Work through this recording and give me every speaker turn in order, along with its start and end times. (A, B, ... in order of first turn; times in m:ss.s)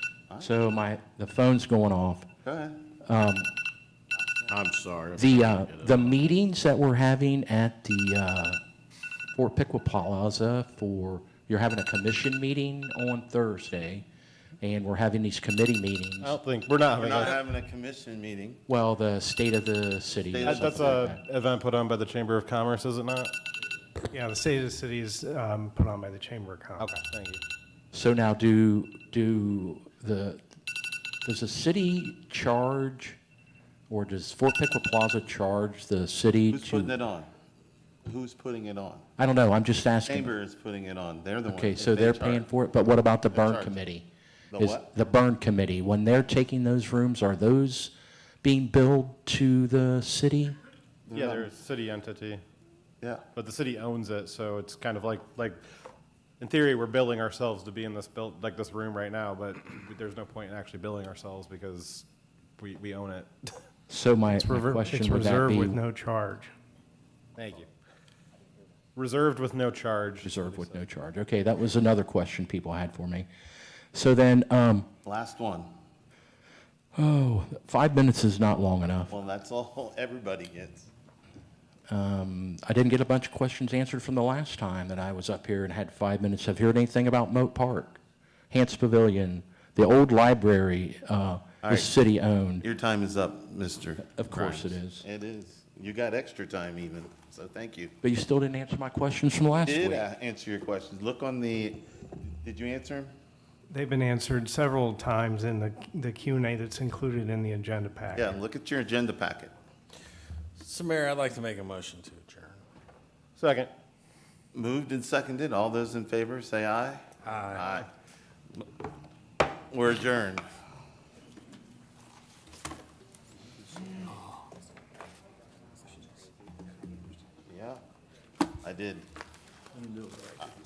0:00.4-0:02.3 A
0:02.4-0:02.8 B
0:03.0-0:03.5 A
0:04.5-0:06.2 C
0:05.2-0:08.6 A
0:09.3-0:14.0 A
0:14.6-0:16.4 A
0:16.2-0:17.4 D
0:16.9-0:18.6 B
0:18.7-0:21.2 A
0:20.3-0:21.1 B
0:20.4-0:23.3 D
0:24.1-0:26.9 E
0:26.8-0:27.4 D
0:27.9-0:30.4 A
0:31.2-0:33.2 A
0:33.9-0:36.9 A
0:36.5-0:37.3 B
0:38.0-0:39.0 B
0:39.2-0:40.3 A
0:40.0-0:42.5 B
0:41.5-0:44.0 A
0:43.3-0:43.8 B
0:44.5-0:44.9 B
0:44.6-0:50.6 A
0:51.1-0:51.5 B
0:51.1-0:52.4 D
0:53.3-0:55.6 D
0:56.4-1:02.0 D
1:02.6-1:03.6 D
1:03.9-1:05.8 A
1:04.4-1:06.5 E
1:07.4-1:07.7 D
1:08.9-1:10.8 D
1:10.2-1:13.3 A
1:13.9-1:14.9 A
1:15.0-1:15.7 B
1:17.0-1:19.1 A
1:19.1-1:20.9 B
1:21.9-1:28.0 A
1:28.5-1:32.6 A
1:31.6-1:31.9 B
1:32.6-1:37.9 B
1:34.0-1:35.0 A
1:38.0-1:40.1 A
1:39.6-1:43.1 B
1:43.7-1:48.4 E
1:48.1-1:49.5 B
1:50.6-1:52.6 C
1:53.4-1:53.7 D
1:54.5-1:57.9 B
1:57.3-1:57.6 D
1:59.7-2:00.5 B
2:07.5-2:07.8 B
2:08.6-2:09.1 B